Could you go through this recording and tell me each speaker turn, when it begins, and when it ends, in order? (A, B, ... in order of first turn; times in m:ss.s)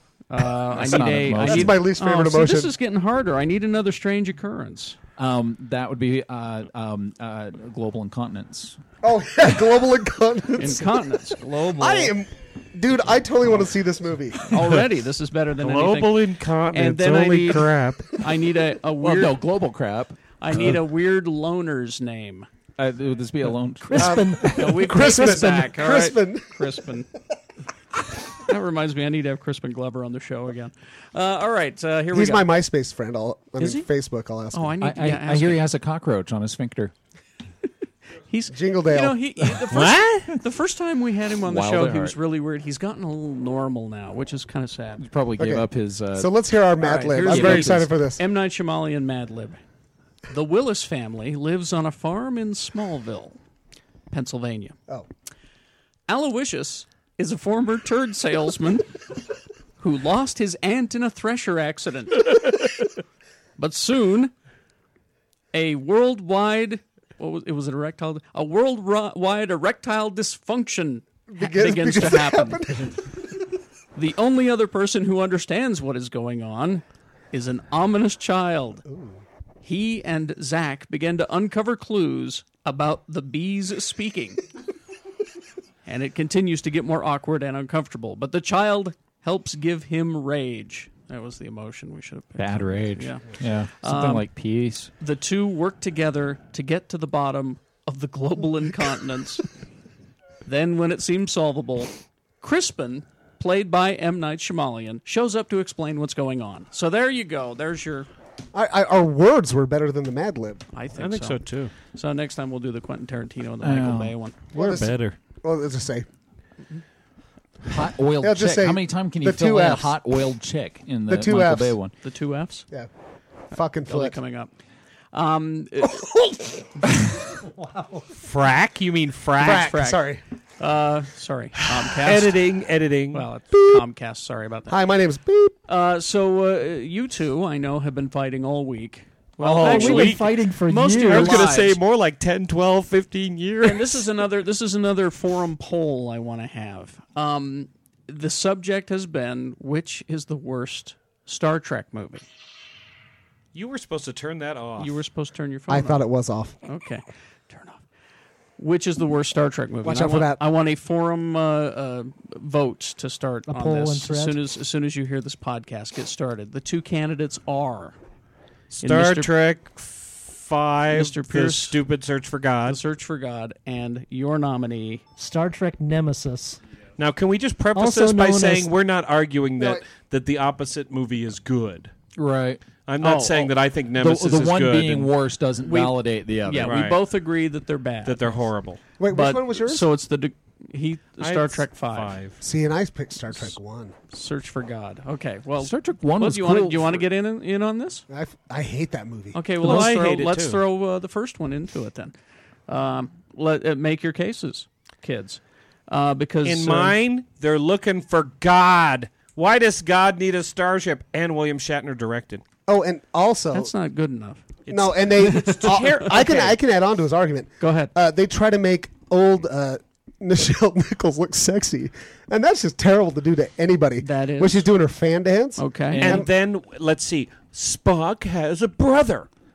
0:00.3-0:05.0 A
0:00.7-0:01.8 B
0:00.8-0:02.7 C
0:05.2-0:08.8 B
0:09.0-0:14.4 C
0:10.6-0:12.1 A
0:14.5-0:19.4 A
0:15.6-0:18.1 D
0:19.0-0:20.7 B
0:20.4-0:22.5 A
0:22.8-0:24.4 B
0:23.8-0:25.4 E
0:23.9-0:26.8 C
0:24.5-0:27.1 A
0:28.3-0:32.5 A
0:32.1-0:34.8 C
0:33.6-0:33.9 A
0:34.5-0:35.6 A
0:34.8-0:36.9 B
0:38.3-0:45.0 A
0:38.5-0:39.2 C
0:39.7-0:40.4 D
0:41.4-0:42.2 B
0:45.0-0:46.3 B
0:45.4-0:48.2 C
0:46.8-0:49.6 A
0:47.2-0:47.9 B
0:50.3-0:53.4 A
0:54.1-0:54.8 A
0:56.1-0:59.0 A
0:59.8-1:02.5 A
1:03.6-1:04.3 A
1:05.5-1:12.7 A
1:11.3-1:13.3 C
1:14.0-1:18.8 A
1:18.9-1:19.2 C
1:19.6-1:24.4 A
1:25.8-1:33.3 A
1:32.4-1:34.9 B
1:33.8-1:34.3 A
1:35.0-1:39.4 A
1:40.4-1:48.1 A
1:48.5-1:50.7 C
1:50.7-1:54.4 A
1:51.0-1:51.7 D
1:53.6-1:54.1 B
1:54.5-1:55.2 D
1:54.6-1:56.0 C
1:57.7-2:01.9 B
1:58.2-2:00.0 C
2:01.1-2:01.8 C
2:02.0-2:02.7 A
2:03.5-2:04.2 C
2:03.9-2:04.5 A
2:05.1-2:06.1 A
2:06.0-2:06.7 C
2:07.4-2:08.1 E
2:08.2-2:09.7 D
2:09.4-2:10.2 C
2:09.4-2:10.1 A
2:10.6-2:12.4 A
2:11.9-2:13.3 D
2:13.1-2:14.8 A
2:13.5-2:13.8 C
2:14.7-2:15.6 C
2:15.7-2:21.8 A
2:19.4-2:24.0 D
2:19.4-2:20.0 C
2:19.6-2:21.4 E
2:23.6-2:32.2 A
2:33.5-2:35.0 D
2:34.8-2:36.0 A
2:35.7-2:36.6 C
2:36.6-2:37.8 A
2:38.6-2:48.0 A
2:39.8-2:40.4 C
2:43.5-2:44.4 E
2:48.7-2:52.8 D
2:48.8-2:49.3 A
2:50.9-2:51.8 A
2:52.7-2:55.0 A
2:55.2-2:56.6 E
2:57.0-3:01.9 D
2:57.7-2:58.7 E
2:59.6-2:59.8 C
3:02.2-3:02.6 B
3:02.9-3:05.1 D
3:03.0-3:03.5 A
3:04.0-3:06.9 B
3:05.6-3:08.5 A
3:06.6-3:07.0 D
3:08.0-3:08.8 D
3:09.0-3:09.9 C
3:09.1-3:12.2 A
3:11.2-3:12.4 D
3:12.4-3:13.9 C
3:14.1-3:18.0 A
3:15.6-3:17.0 B
3:18.1-3:19.4 C
3:19.3-3:22.1 A
3:19.6-3:20.6 D
3:19.6-3:19.9 B
3:22.7-3:27.0 A
3:26.4-3:32.4 D
3:32.7-3:33.7 C
3:33.5-3:34.4 A
3:34.7-3:36.6 D
3:34.7-3:46.3 C
3:35.2-3:36.1 A
3:37.6-3:37.9 A
3:44.0-3:44.7 A
3:45.6-3:46.1 A
3:45.9-3:46.3 B
3:46.0-3:49.3 D